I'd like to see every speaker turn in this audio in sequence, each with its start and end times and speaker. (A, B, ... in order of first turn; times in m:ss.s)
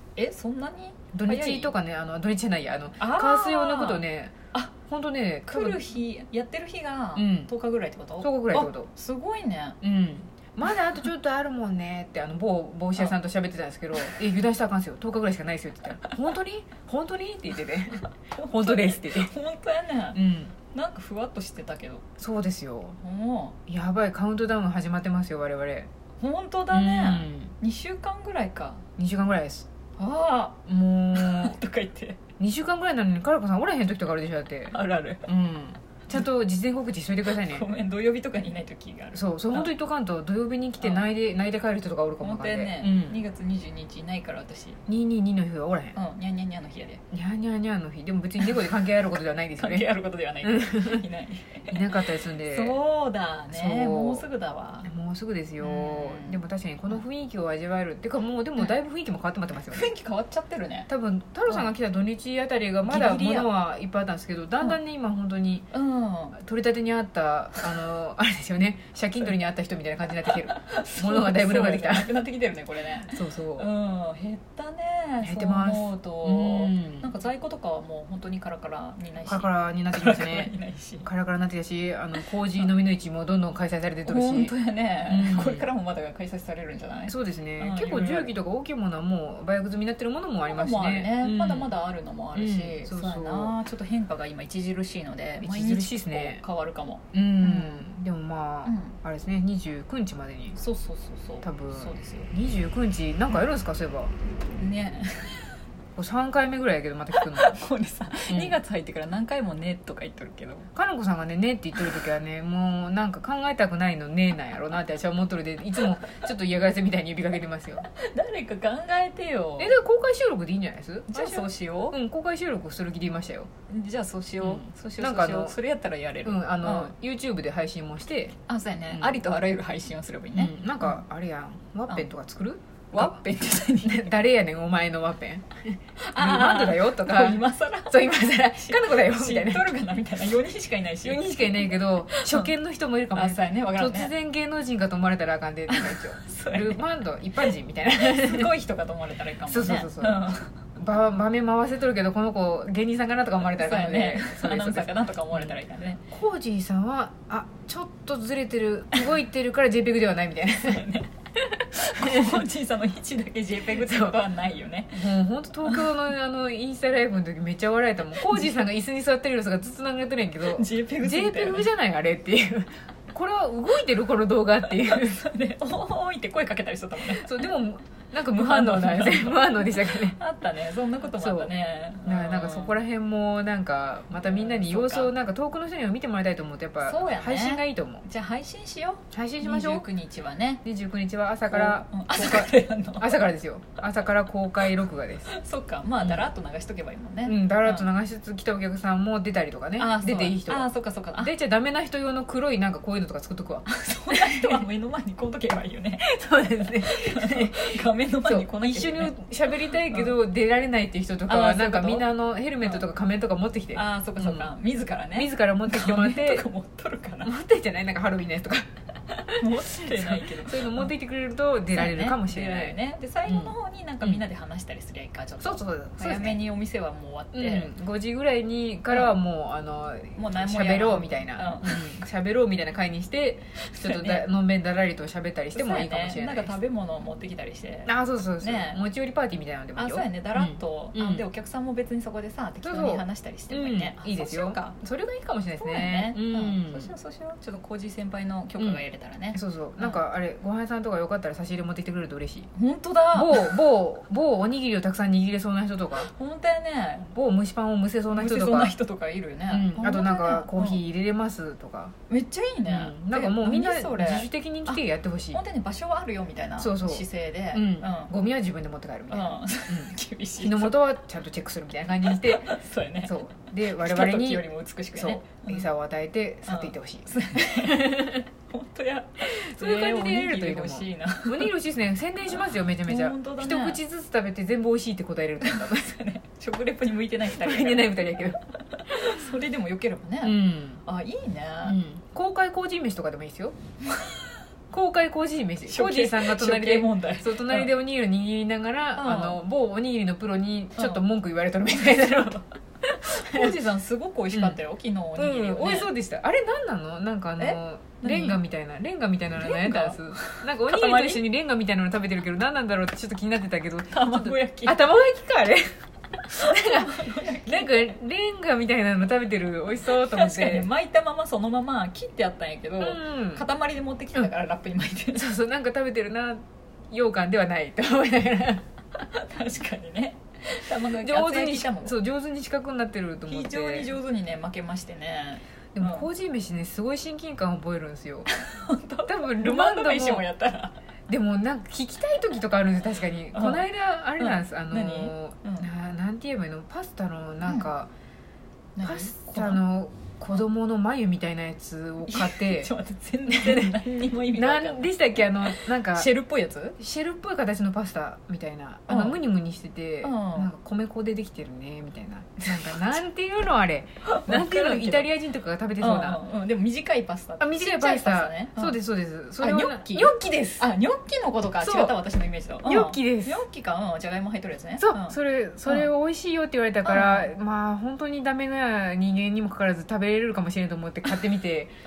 0:00.2-0:01.7 A
0:01.1-0:04.4 B
0:03.0-0:04.7 A
0:04.9-0:05.9 B
0:05.5-0:09.8 A
0:07.2-0:07.5 B
0:08.2-0:08.9 B
0:09.8-0:19.3 B
0:18.4-0:22.0 A
0:20.1-0:20.5 B
0:22.2-0:23.0 B
0:23.0-0:23.6 A
0:23.7-0:25.9 B
0:26.2-0:28.8 A
0:26.7-0:27.5 B
0:29.0-0:29.7 B
0:30.0-0:30.6 A
0:30.7-0:31.6 B
0:31.1-0:32.2 A
0:32.4-0:37.7 B
0:34.7-0:35.3 A
0:37.2-0:39.7 A
0:39.1-0:43.2 B
0:40.8-0:41.1 A
0:42.2-0:44.8 A
0:44.9-0:46.0 B
0:46.0-0:47.0 A
0:47.1-0:49.9 B
0:49.6-0:54.9 A
0:50.4-0:51.0 B
0:51.7-0:52.8 B
0:53.5-0:54.3 B
0:54.8-0:59.9 B
0:55.6-0:57.0 A
0:59.7-1:00.9 A
1:00.9-1:05.7 B
1:02.8-1:03.5 A
1:05.7-1:06.4 A
1:06.4-1:12.2 B
1:10.3-1:21.1 A
1:13.1-1:13.7 B
1:15.2-1:17.1 B
1:19.2-1:20.5 B
1:21.0-1:24.5 B
1:22.2-1:22.7 A
1:24.0-1:28.3 A
1:25.1-1:25.7 B
1:27.1-1:31.7 B
1:30.5-1:37.8 A
1:32.3-1:33.6 B
1:35.4-1:36.4 B
1:37.1-1:40.6 B
1:38.7-1:39.0 A
1:40.6-1:42.3 A
1:41.4-1:44.1 B
1:44.6-1:45.5 A
1:46.0-1:47.7 B
1:47.1-1:50.7 A
1:48.3-1:48.6 B
1:50.7-1:57.9 B
1:55.8-1:56.2 A
1:57.9-1:59.8 A
1:59.6-2:03.5 B
2:01.1-2:02.0 A
2:03.7-2:06.9 A
2:04.4-2:05.6 B
2:06.2-2:08.4 B
2:08.5-2:11.0 A
2:08.9-2:09.2 B
2:10.3-2:19.7 B
2:12.9-2:14.2 A
2:16.0-2:22.5 A
2:21.0-2:28.5 B
2:23.1-2:24.1 A
2:25.7-2:26.8 A
2:27.4-2:30.5 A
2:29.5-2:35.6 B
2:33.6-2:36.0 A
2:36.1-2:40.8 B
2:40.6-2:41.1 A
2:41.4-2:42.5 B
2:41.7-2:45.0 A
2:43.8-2:44.2 B
2:44.9-2:55.2 B
2:45.6-2:45.9 A
2:50.5-2:51.7 A
2:54.8-2:57.5 A
2:57.1-3:00.2 B
2:58.3-3:02.8 A
3:01.1-3:01.5 B
3:02.0-3:08.0 B
3:04.2-3:05.1 A
3:06.8-3:10.6 A
3:09.1-3:09.9 B
3:10.6-3:15.3 B
3:11.5-3:13.2 A
3:15.3-3:17.9 A
3:17.2-3:24.6 B
3:19.8-3:21.3 A
3:23.7-3:26.1 A
3:26.0-3:34.5 B
3:26.6-3:29.2 A
3:29.9-3:30.2 A
3:31.3-3:32.1 A
3:33.7-3:37.3 A
3:35.1-3:36.5 B
3:37.2-3:44.2 B
3:39.4-3:40.9 A
3:41.7-3:47.7 A
3:45.4-3:46.4 B
3:47.3-3:56.6 B
3:48.9-3:49.1 A
3:50.2-3:52.0 A
3:53.8-3:54.3 A
3:55.6-3:58.8 A
3:57.9-4:01.3 B
3:59.8-4:04.8 A
4:02.6-4:06.9 B
4:05.6-4:10.0 A
4:09.3-4:12.5 B
4:12.6-4:13.6 A
4:13.1-4:16.1 B
4:16.0-4:17.1 A
4:17.1-4:18.8 B
4:18.1-4:20.8 A
4:19.5-4:21.9 B
4:22.1-4:28.1 A
4:22.6-4:25.4 B
4:26.6-4:38.2 B
4:29.1-4:30.8 A
4:32.1-4:35.6 A
4:36.5-4:41.5 A
4:39.2-4:46.0 B
4:42.9-4:43.8 A
4:45.4-4:51.8 A
4:47.3-4:49.2 B
4:50.2-4:50.8 B
4:51.6-4:53.6 B
4:53.9-4:54.2 A
4:54.7-5:03.6 B
4:55.7-4:57.7 A
4:59.0-4:59.4 A
5:00.8-5:01.0 A
5:03.0-5:05.9 A
5:04.3-5:04.6 B
5:05.2-5:20.7 B
5:07.4-5:08.4 A
5:09.4-5:11.2 A
5:13.9-5:14.8 A
5:16.3-5:17.9 A
5:19.8-5:25.3 A
5:22.8-5:23.5 B
5:25.1-5:28.6 B
5:29.1-5:32.0 A
5:31.0-5:33.9 B
5:33.3-5:36.1 A
5:35.8-5:38.3 B
5:38.3-5:40.8 A
5:39.1-5:40.3 B
5:41.1-5:47.9 B
5:43.3-5:43.6 A
5:44.2-5:45.7 A
5:48.8-5:49.6 A
5:48.8-5:52.7 B
5:52.1-5:56.8 A
5:53.3-5:53.8 B
5:54.3-5:56.1 B
5:56.8-6:06.2 B
5:58.9-5:59.2 A
6:00.0-6:00.5 A
6:04.0-6:05.1 A
6:05.8-6:08.8 A
6:07.4-6:10.7 B
6:09.4-6:15.9 A
6:11.6-6:12.0 B
6:12.6-6:13.4 B
6:14.8-6:21.7 B
6:16.8-6:17.3 A